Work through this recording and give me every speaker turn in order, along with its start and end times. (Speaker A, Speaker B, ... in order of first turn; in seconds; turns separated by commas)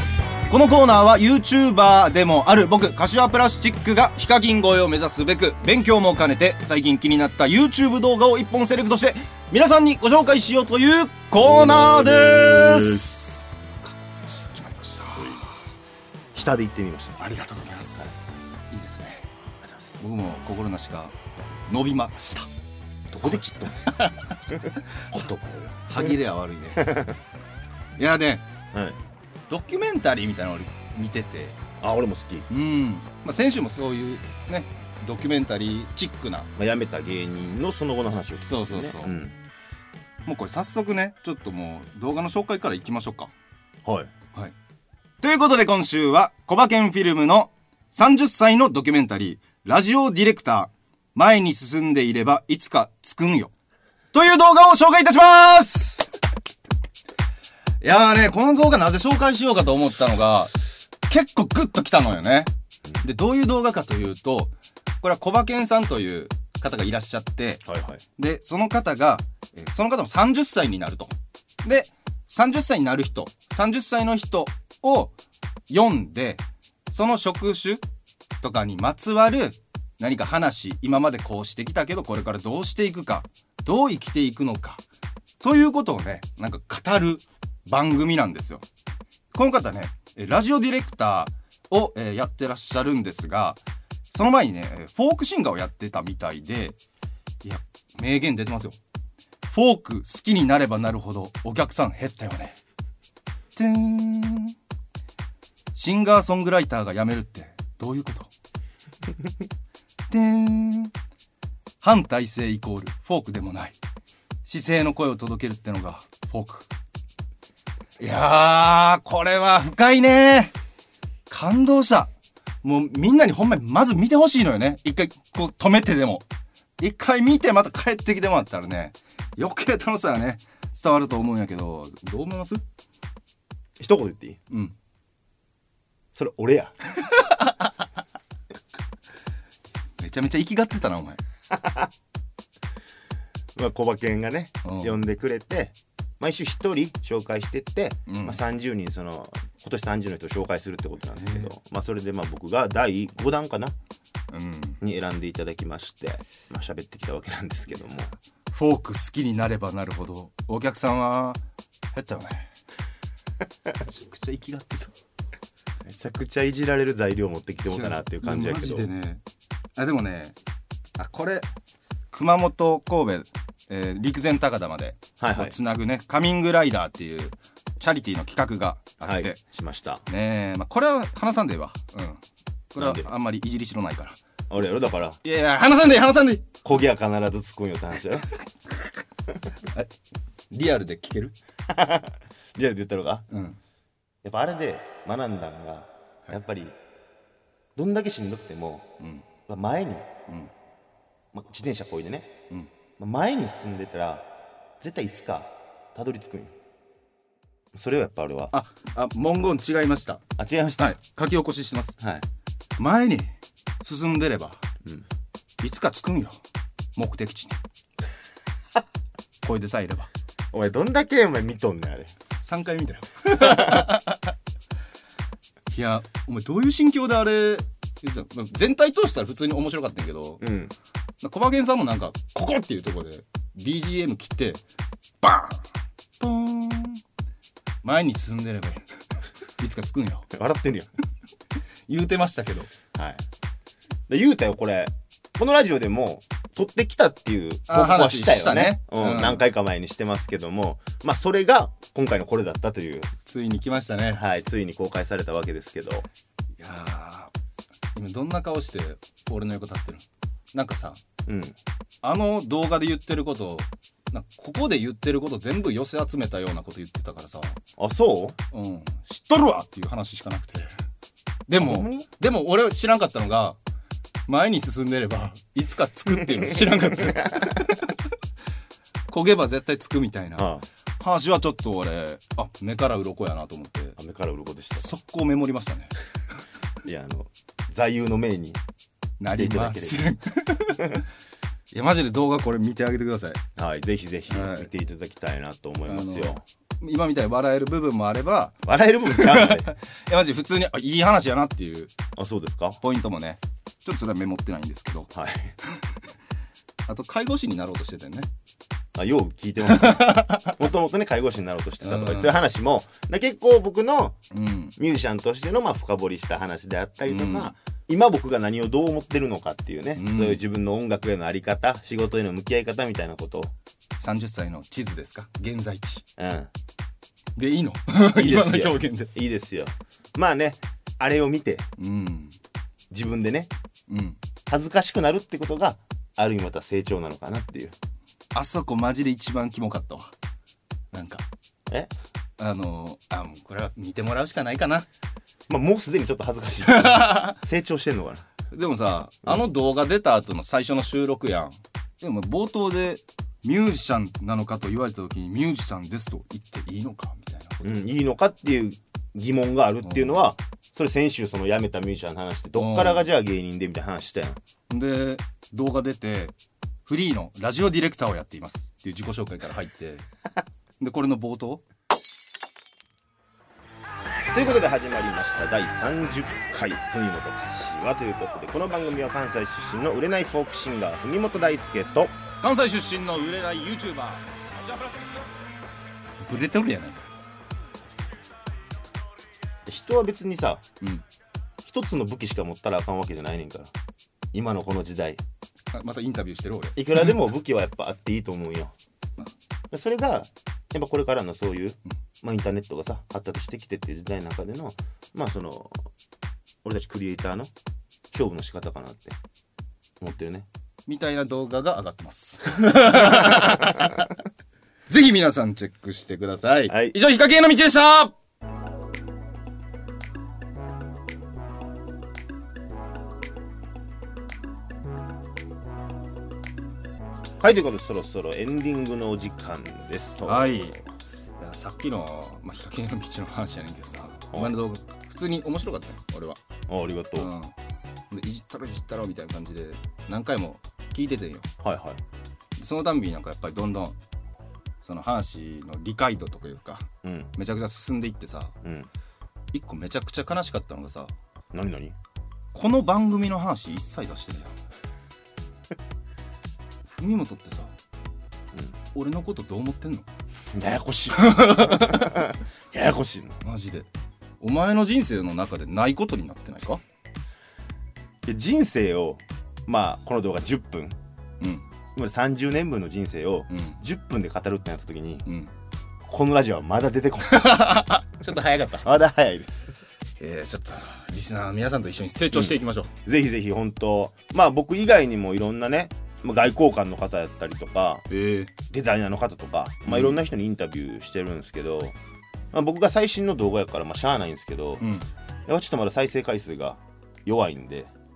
Speaker A: 0.5-15.4, Speaker B: 11.4-13.1, Speaker B: 16.3-17.2, Speaker A: 17.2-19.3, Speaker B: 19.6-19.9, Speaker A: 20.0-21.1, Speaker A: 21.7-22.5, Speaker B: 23.1-23.9, Speaker A: 23.2-24.2, Speaker B: 24.5-26.1, Speaker A: 25.9-27.0, Speaker B: 26.8-27.1, Speaker A: 28.0-28.4, Speaker B: 28.7-29.0, Speaker A: 29.5-31.6, Speaker B: 31.8-32.5, Speaker A: 32.5-36.5, Speaker B: 36.6-39.3, Speaker A: 38.4-39.1, Speaker A: 40.2-43.3, Speaker B: 43.8-44.1, Speaker A: 45.2-53.5, Speaker A: 54.1-56.1, Speaker A: 57.8-60.5, Speaker A: 61.1-62.5, Speaker A: 63.0-67.6, Speaker B: 67.7-68.0, Speaker A: 68.2-75.1, Speaker A: 75.7-77.8, Speaker A: 78.4-84.8, Speaker A: 85.4-88.6, Speaker A: 89.3-93.6, Speaker A: 94.1-96.8, Speaker A: 97.4-98.8, Speaker A: 99.5-102.5, Speaker A: 103.5-104.5, Speaker A: 105.7-108.3, Speaker A: 110.1-110.9, Speaker A: 111.8-113.8, Speaker A: 114.4-116.7, Speaker A: 118.0-120.5, Speaker A: 121.3-122.1, Speaker A: 122.6-126.2, Speaker A: 126.8-132.6, Speaker B: 133.8-134.4, Speaker B: 136.1-136.7, Speaker A: 140.0-141.2, Speaker B: 141.5-141.9, Speaker B: 143.6-153.7, Speaker A: 144.6-145.0, Speaker A: 148.1-148.4, Speaker A: 151.2-151.5, Speaker A: 154.3-154.8, Speaker B: 154.8-158.1, Speaker A: 158.5-161.4, Speaker A: 161.9-162.5, Speaker A: 163.8-164.9, Speaker B: 165.8-168.9, Speaker A: 167.7-169.2, Speaker A: 169.8-170.3, Speaker A: 171.0-171.4, Speaker A: 172.1-179.4, Speaker B: 175.2-175.5, Speaker B: 179.0-180.0, Speaker A: 180.1-182.2, Speaker A: 182.7-184.2, Speaker B: 182.8-183.1, Speaker B: 184.5-185.2, Speaker A: 185.2-186.6, Speaker B: 186.6-188.3, Speaker A: 189.6-189.9, Speaker A: 190.5-191.3, Speaker B: 191.7-193.2, Speaker A: 193.3-193.6, Speaker B: 194.2-196.8, Speaker B: 197.8-198.9, Speaker A: 199.0-199.2, Speaker B: 199.5-200.1, Speaker B: 201.3-202.3, Speaker B: 203.0-204.3, Speaker B: 204.8-206.5, Speaker B: 207.7-208.5, Speaker A: 208.5-210.3, Speaker B: 210.4-210.9, Speaker A: 210.8-212.0, Speaker B: 212.0-212.2, Speaker A: 212.8-213.3, Speaker A: 213.8-214.6, Speaker A: 215.6-216.3, Speaker A: 216.9-217.6, Speaker A: 219.4-220.1, Speaker B: 220.5-222.1, Speaker A: 222.4-224.3, Speaker B: 223.4-223.7, Speaker A: 225.7-230.4, Speaker B: 230.4-230.7, Speaker A: 231.2-234.6, Speaker A: 235.2-235.6, Speaker A: 236.2-237.0, Speaker A: 237.8-238.8, Speaker A: 239.6-240.3, Speaker B: 240.3-240.9, Speaker A: 241.9-242.7, Speaker B: 242.9-243.2, Speaker B: 244.1-253.1, Speaker A: 247.7-249.4, Speaker A: 253.2-254.2, Speaker B: 254.1-256.1, Speaker A: 256.6-257.3, Speaker A: 257.9-261.0, Speaker B: 261.3-261.6, Speaker A: 262.0-267.6, Speaker B: 267.8-268.4, Speaker A: 268.5-270.7, Speaker A: 271.5-273.6, Speaker B: 271.6-272.1, Speaker A: 274.3-277.9, Speaker A: 279.1-280.5, Speaker B: 280.4-280.6, Speaker A: 281.0-283.9, Speaker B: 284.0-284.9, Speaker A: 284.8-285.9, Speaker B: 286.8-288.6, Speaker A: 289.2-291.0, Speaker B: 289.3-290.0, Speaker A: 291.7-293.4, Speaker B: 293.6-296.4, Speaker A: 294.3-294.7, Speaker A: 295.9-301.9, Speaker B: 298.6-299.7, Speaker B: 302.1-302.8, Speaker A: 302.8-305.1, Speaker B: 305.1-305.5, Speaker A: 306.9-308.3, Speaker B: 308.9-314.1, Speaker A: 309.7-310.5, Speaker A: 311.8-312.4, Speaker A: 314.3-314.8, Speaker B: 314.8-323.5, Speaker A: 317.1-317.5, Speaker A: 320.0-320.4, Speaker A: 324.0-326.0, Speaker B: 326.2-326.5, Speaker A: 327.4-329.1, Speaker B: 328.1-331.7, Speaker A: 331.8-332.3, Speaker B: 332.9-333.5, Speaker A: 333.9-334.2, Speaker B: 334.5-337.7, Speaker A: 338.3-340.1, Speaker A: 340.9-341.2, Speaker A: 342.4-344.9, Speaker B: 345.5-348.2, Speaker A: 346.6-347.4, Speaker A: 348.5-357.8, Speaker B: 357.6-364.4, Speaker A: 359.8-360.2, Speaker A: 362.6-363.1, Speaker A: 364.7-366.3, Speaker A: 366.9-370.1, Speaker A: 370.8-371.6, Speaker B: 374.3-382.1, Speaker A: 382.4-385.3, Speaker A: 386.2-387.1, Speaker B: 389.7-390.6, Speaker B: 391.6-393.7, Speaker B: 394.3-395.2, Speaker A: 395.7-397.0, Speaker B: 396.8-398.7, Speaker B: 399.7-405.9, Speaker B: 406.6-407.5, Speaker B: 408.1-409.2, Speaker B: 410.0-410.5, Speaker A: 410.9-414.1, Speaker B: 413.2-413.5, Speaker A: 414.9-418.1, Speaker B: 416.7-416.9, Speaker B: 427.4-430.7, Speaker A: 430.2-430.8, Speaker A: 431.4-436.4, Speaker B: 436.7-437.3, Speaker A: 437.1-437.5, Speaker A: 438.1-441.5, Speaker B: 441.6-442.0, Speaker A: 442.6-444.0, Speaker A: 444.8-448.6, Speaker B: 447.0-447.3, Speaker B: 448.6-448.9, Speaker A: 449.5-451.1, Speaker B: 451.5-451.9, Speaker A: 452.5-454.5, Speaker A: 456.8-457.7, Speaker A: 458.9-460.1, Speaker B: 460.5-463.4, Speaker A: 461.1-462.2, Speaker A: 463.4-463.9, Speaker A: 464.4-466.8, Speaker B: 468.2-470.9, Speaker B: 471.9-475.2, Speaker A: 473.5-473.8, Speaker B: 476.1-477.8, Speaker A: 477.3-478.9, Speaker B: 478.8-479.7, Speaker A: 480.2-482.9, Speaker B: 482.3-488.0, Speaker A: 488.1-488.5, Speaker B: 488.7-491.9, Speaker A: 489.9-490.2, Speaker B: 492.5-494.8, Speaker A: 494.8-495.1, Speaker B: 495.5-497.9